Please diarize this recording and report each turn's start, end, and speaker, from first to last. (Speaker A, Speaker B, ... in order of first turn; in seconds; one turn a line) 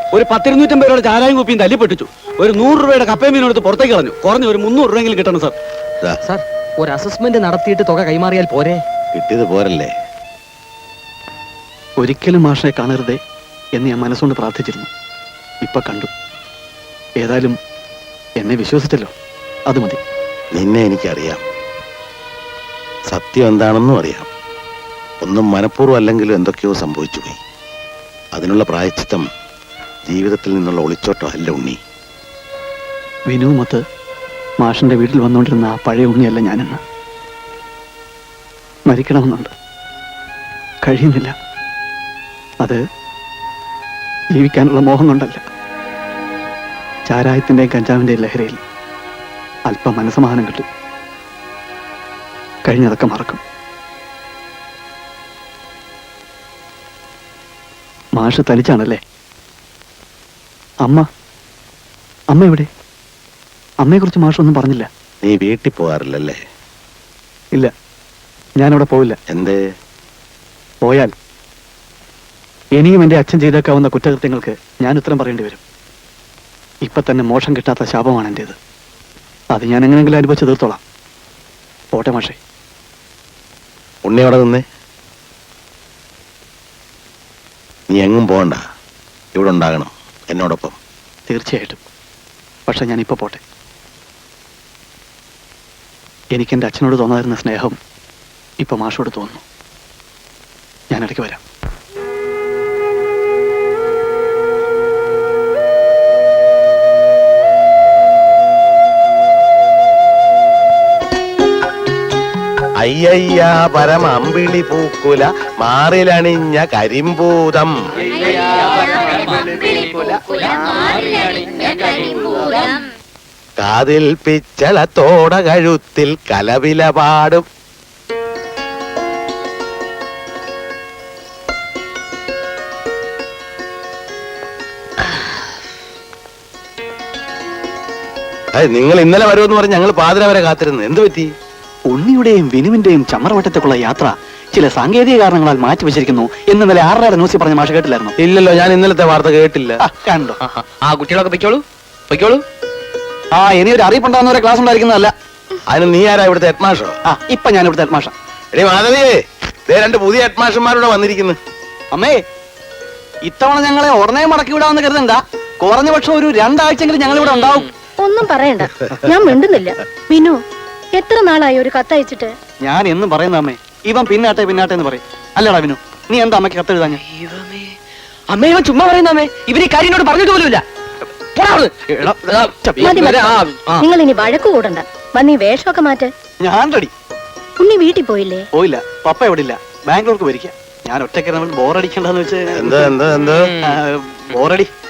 Speaker A: 0.1-5.5
Speaker B: 6.2-8.8
Speaker C: 9.1-9.9
Speaker D: 12.0-13.2
Speaker D: 13.8-14.9
Speaker D: 15.6-16.1
Speaker D: 17.2-17.5
Speaker D: 18.4-19.1
Speaker D: 19.7-20.0
Speaker C: 20.5-21.4
Speaker C: 23.1-24.3
Speaker C: 25.2-27.4
Speaker C: 28.4-29.2
Speaker C: 30.1-31.8
Speaker D: 33.3-33.8
Speaker D: 34.6-36.8
Speaker D: 38.9-39.5
Speaker D: 40.8-41.3
Speaker D: 44.4-45.4
Speaker D: 47.1-48.6
Speaker D: 49.7-50.6
Speaker D: 52.7-53.4
Speaker D: 58.2-59.0
Speaker D: 62.3-62.7
Speaker D: 63.8-64.9
Speaker C: 65.2-66.4
Speaker D: 68.6-69.2
Speaker C: 69.3-69.6
Speaker D: 70.8-71.1
Speaker D: 72.8-75.6
Speaker D: 76.9-78.5
Speaker D: 79.5-80.8
Speaker D: 81.9-82.4
Speaker C: 84.0-84.6
Speaker C: 87.9-88.6
Speaker C: 89.3-90.8
Speaker D: 91.3-91.8
Speaker D: 92.7-93.4
Speaker D: 96.3-97.8
Speaker D: 98.6-99.4
Speaker D: 100.9-101.4
Speaker C: 112.8-117.7
Speaker C: 123.6-127.4
Speaker C: 138.5-141.3
Speaker D: 141.9-148.2
Speaker C: 148.2-149.8
Speaker D: 149.8-150.4
Speaker E: 150.5-152.4
Speaker D: 153.3-155.1
Speaker C: 155.7-156.9
Speaker D: 157.1-158.1
Speaker C: 158.5-159.2
Speaker C: 159.7-161.4
Speaker D: 163.2-167.7
Speaker F: 168.0-170.4
Speaker F: 171.0-172.3
Speaker D: 172.7-177.0
Speaker E: 178.3-180.6
Speaker D: 181.9-183.4
Speaker F: 182.8-183.2
Speaker E: 183.2-183.5
Speaker F: 183.8-186.1
Speaker D: 186.4-186.9
Speaker F: 187.6-188.4
Speaker D: 188.5-192.9
Speaker C: 192.5-193.6
Speaker D: 193.6-194.7